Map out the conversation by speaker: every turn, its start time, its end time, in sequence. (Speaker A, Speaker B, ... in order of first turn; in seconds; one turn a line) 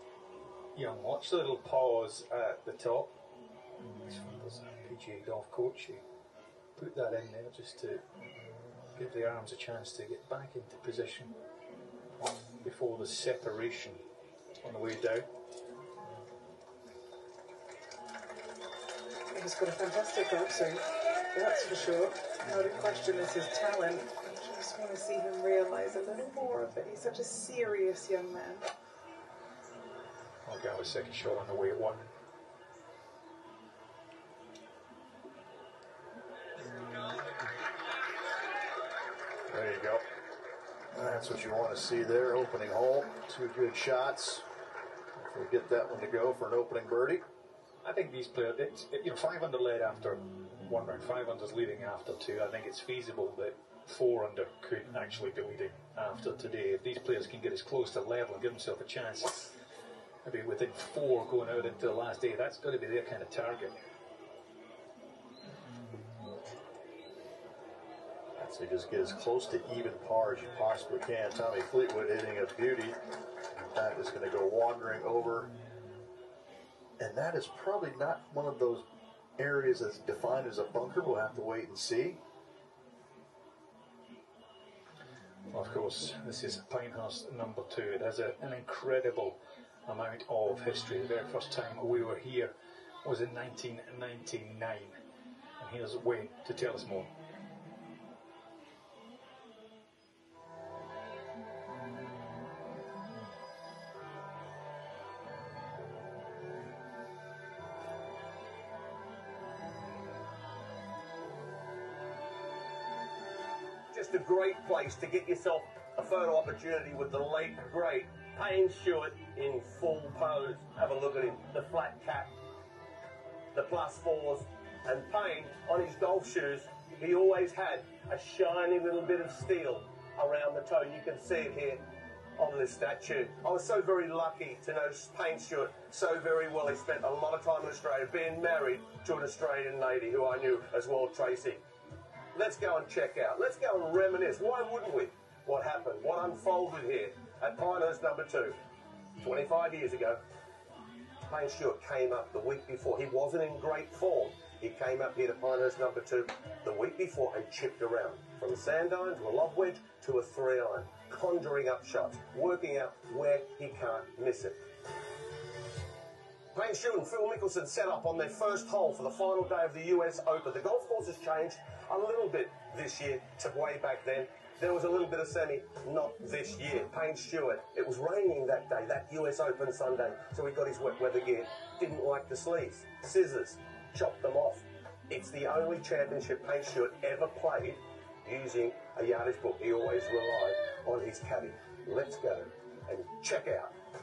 Speaker A: 0.8-3.1
Speaker A: 4.0-6.0
Speaker A: 6.8-8.0
Speaker A: 8.9-11.3
Speaker A: 12.6-14.0
Speaker A: 14.6-15.3
Speaker B: 19.3-28.7
Speaker A: 30.4-32.0
Speaker C: 39.5-40.0
Speaker C: 41.0-44.4
Speaker C: 45.2-47.2
Speaker A: 47.8-59.5
Speaker A: 60.2-63.8
Speaker C: 68.4-73.0
Speaker C: 73.8-75.5
Speaker C: 77.0-78.8
Speaker C: 79.4-82.2
Speaker A: 85.5-92.5
Speaker A: 93.0-95.0
Speaker A: 95.6-97.1
Speaker D: 113.9-122.3
Speaker D: 123.5-131.8
Speaker D: 132.4-141.6
Speaker D: 142.3-148.6
Speaker D: 149.2-150.2
Speaker D: 151.3-164.6
Speaker D: 166.5-193.7